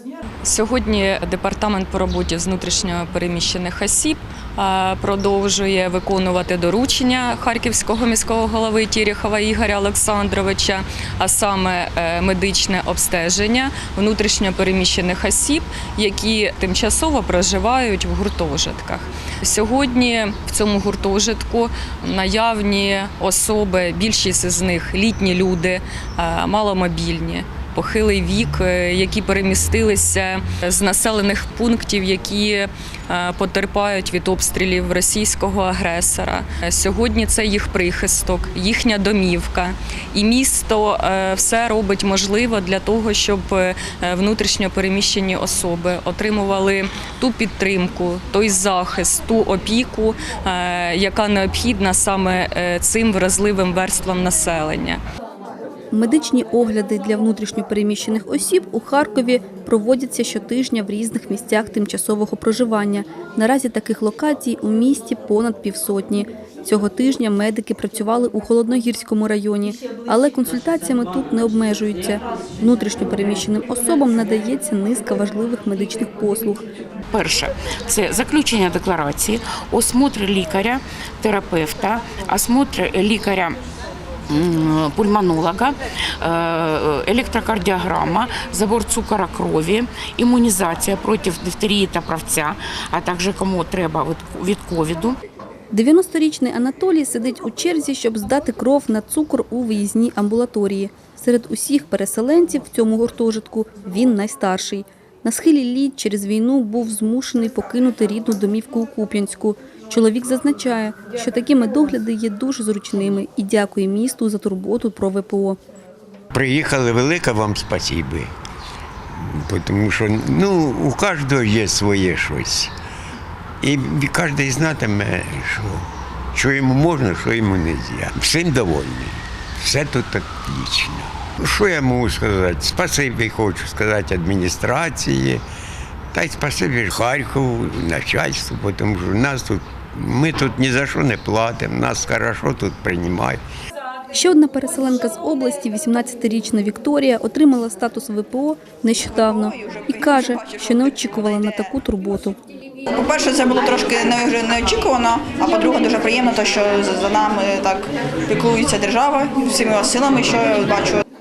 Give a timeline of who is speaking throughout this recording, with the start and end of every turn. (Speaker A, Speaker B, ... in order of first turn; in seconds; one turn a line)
Speaker A: 0.4-55.0
Speaker B: 55.9-76.7
Speaker C: 77.1-83.6
Speaker C: 84.3-95.2
Speaker B: 95.7-115.6
Speaker D: 116.3-118.3
Speaker D: 119.2-122.7
Speaker D: 123.6-135.4
Speaker D: 136.1-143.4
Speaker B: 144.1-152.4
Speaker E: 149.2-151.6
Speaker E: 152.9-161.0